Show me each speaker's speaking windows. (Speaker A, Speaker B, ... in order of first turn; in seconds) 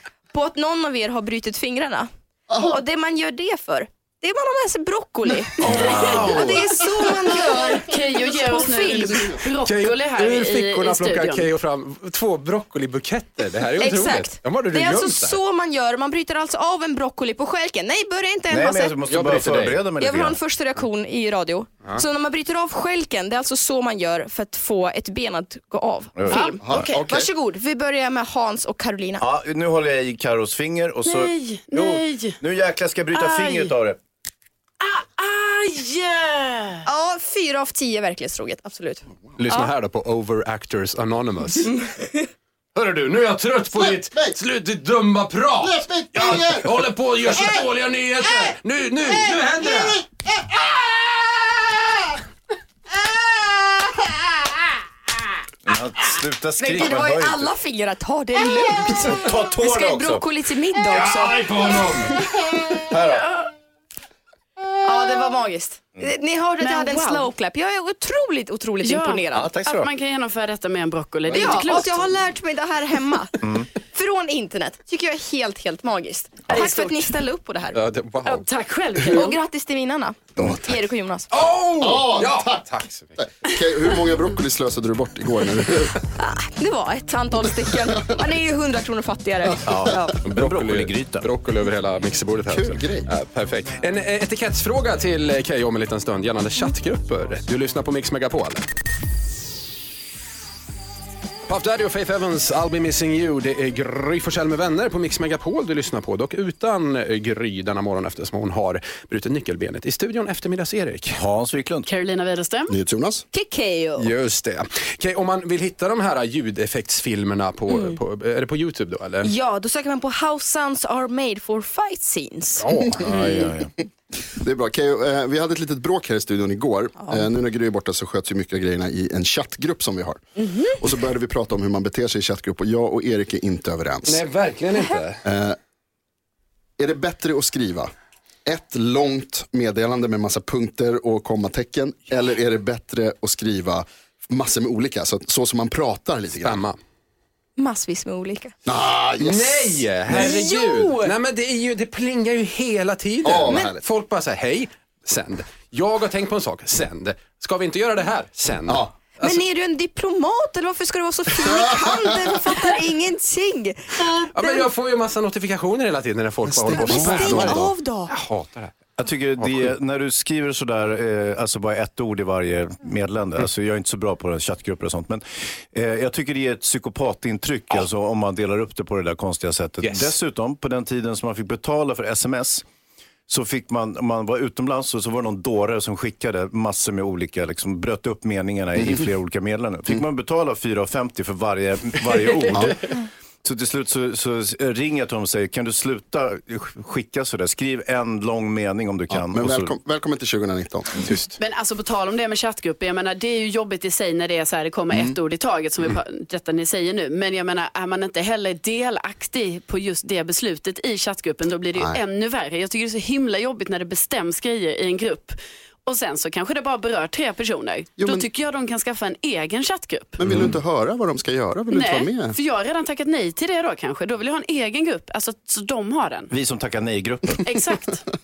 Speaker A: 0.3-9.4, 13.8-19.0, 20.0-29.2, 36.9-39.7, 56.6-61.8, 64.8-69.5, 71.3-77.8, 79.1-81.3, 86.2-90.1, 113.3-114.1, 117.7-118.0, 119.2-122.7, 147.6-148.6, 150.1-151.2, 159.2-164.7, 166.7-168.1
Speaker B: 5.6-6.8, 7.4-11.5, 26.3-27.0, 31.1-32.4, 33.1-33.7, 34.8-36.9, 66.6-67.3, 68.8-72.1, 76.5-77.1, 78.2-79.4, 111.9-112.7, 201.4-220.2, 221.7-226.3, 227.4-228.0
Speaker C: 5.6-6.4, 18.5-20.4, 26.2-26.9, 29.2-34.0, 55.7-57.5, 59.0-60.3, 61.0-62.0, 62.8-63.4, 69.3-69.9, 73.4-73.7, 89.7-91.3, 111.1-111.9, 123.0-123.7, 169.0-182.7, 183.3-199.8, 220.3-220.6, 226.3-227.5
Speaker D: 5.9-6.5, 9.7-15.4, 19.1-19.9, 39.4-41.7, 42.8-50.0, 77.7-78.5, 81.3-83.2, 90.1-98.7, 101.5-111.2, 114.0-119.3, 122.6-123.5, 134.1-135.2, 146.4-146.8, 149.2-159.4, 164.3-168.7, 169.4-169.7, 179.8-180.2, 201.0-201.4
Speaker E: 26.6-27.3, 43.8-44.4, 45.6-46.9, 80.4-80.8, 81.8-82.6, 83.2-86.0, 92.5-93.1, 112.7-113.2, 122.9-123.4, 124.4-134.2, 135.2-135.6, 136.8-137.9, 138.4-146.6, 148.7-150.3, 153.2-153.8, 166.5-167.7, 192.5-192.8, 199.1-201.1, 204.9-205.2, 211.7-212.0, 218.0-218.3, 220.2-222.4